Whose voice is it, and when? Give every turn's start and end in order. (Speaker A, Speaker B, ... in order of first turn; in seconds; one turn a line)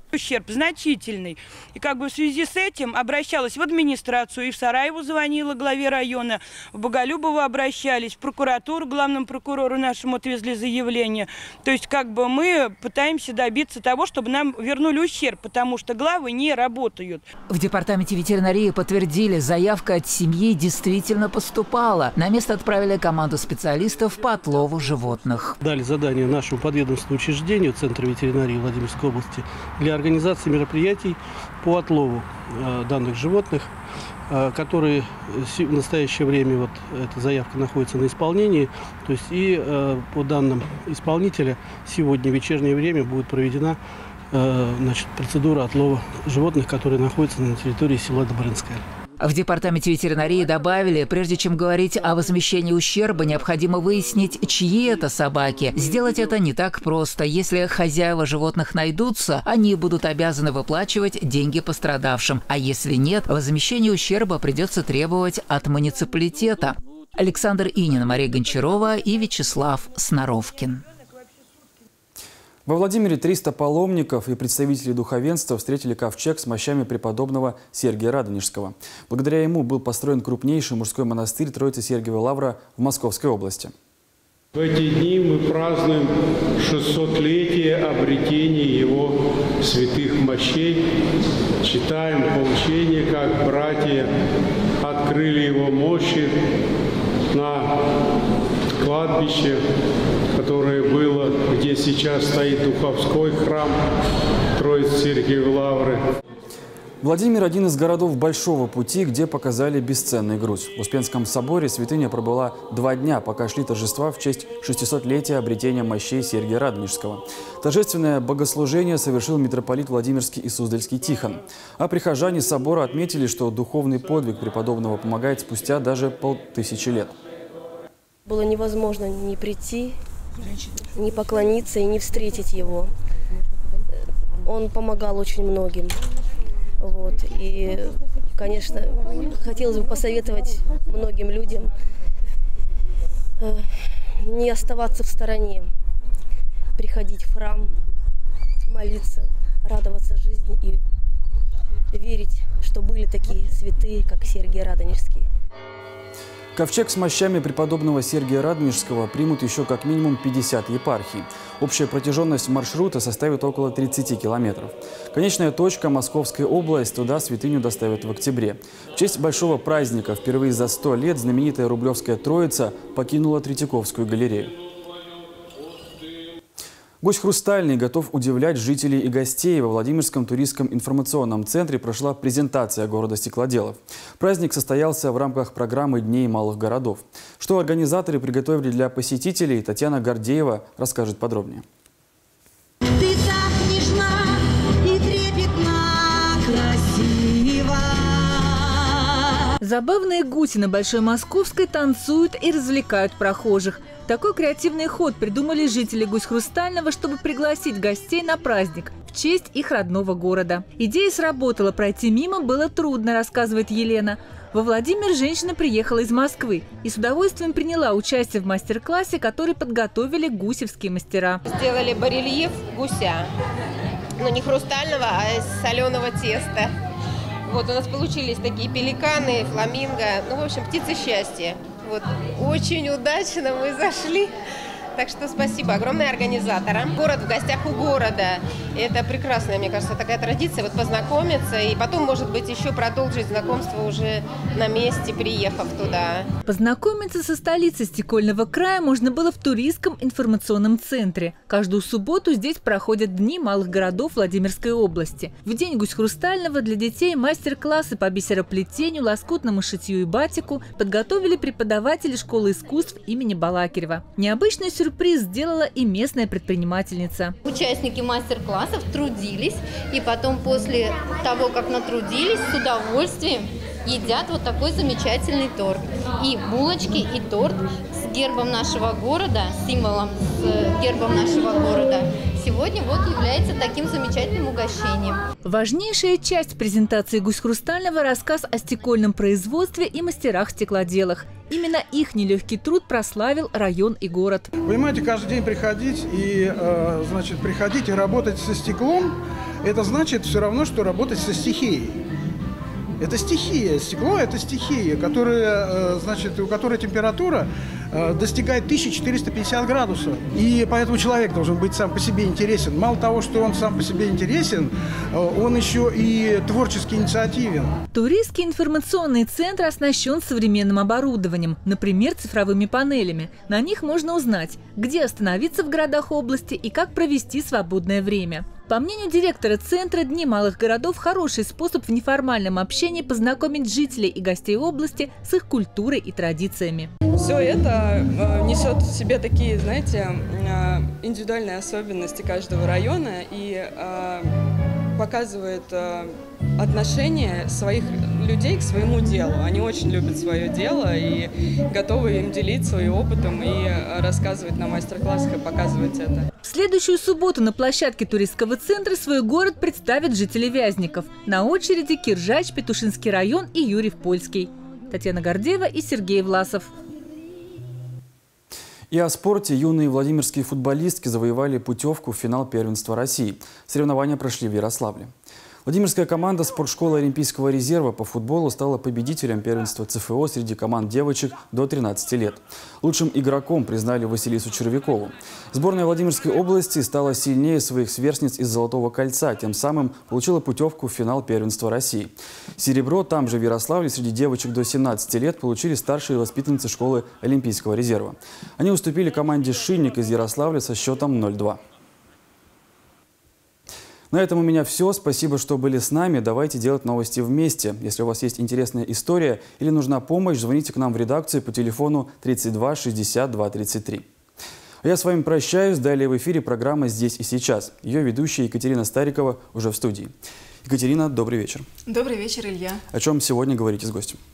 Speaker A: 0.1-17.2
Speaker B: 17.5-25.6
Speaker C: 25.6-33.7
Speaker C: 34.3-43.8
Speaker C: 44.3-48.8
Speaker B: 49.2-70.8
Speaker D: 72.7-83.7
Speaker E: 84.9-86.0
Speaker E: 86.8-89.1
Speaker E: 89.8-90.7
Speaker E: 91.7-94.0
Speaker E: 94.9-96.2
Speaker E: 97.3-97.6
Speaker E: 98.8-99.6
Speaker E: 100.4-103.7
Speaker E: 104.6-106.0
Speaker D: 107.0-127.1
Speaker F: 128.2-130.0
Speaker F: 130.9-132.9
Speaker F: 134.4-136.0
Speaker F: 136.8-141.7
Speaker F: 143.4-145.7
Speaker F: 146.8-147.7
Speaker F: 148.7-150.8
Speaker F: 151.9-155.3
Speaker D: 156.5-174.5
Speaker D: 177.0-191.6
Speaker G: 199.6-221.4
Speaker H: 221.5-223.3
Speaker H: 224.2-226.7
Speaker H: 227.5-234.3
Speaker H: 234.9-246.2
Speaker G: 246.5-267.4
Speaker I: 267.4-285.2
Speaker G: 285.4-294.5
Speaker J: 294.6-302.0
Speaker J: 303.0-317.7
Speaker G: 317.9-336.9
Speaker K: 337.2-344.3
Speaker K: 344.9-356.3
Speaker G: 356.4-366.7
Speaker D: 368.9-375.1
Speaker D: 375.6-401.6
Speaker D: 404.1-414.0
Speaker D: 414.8-420.1
Speaker D: 420.6-421.6
Speaker C: 421.9-422.8
Speaker D: 422.9-424.2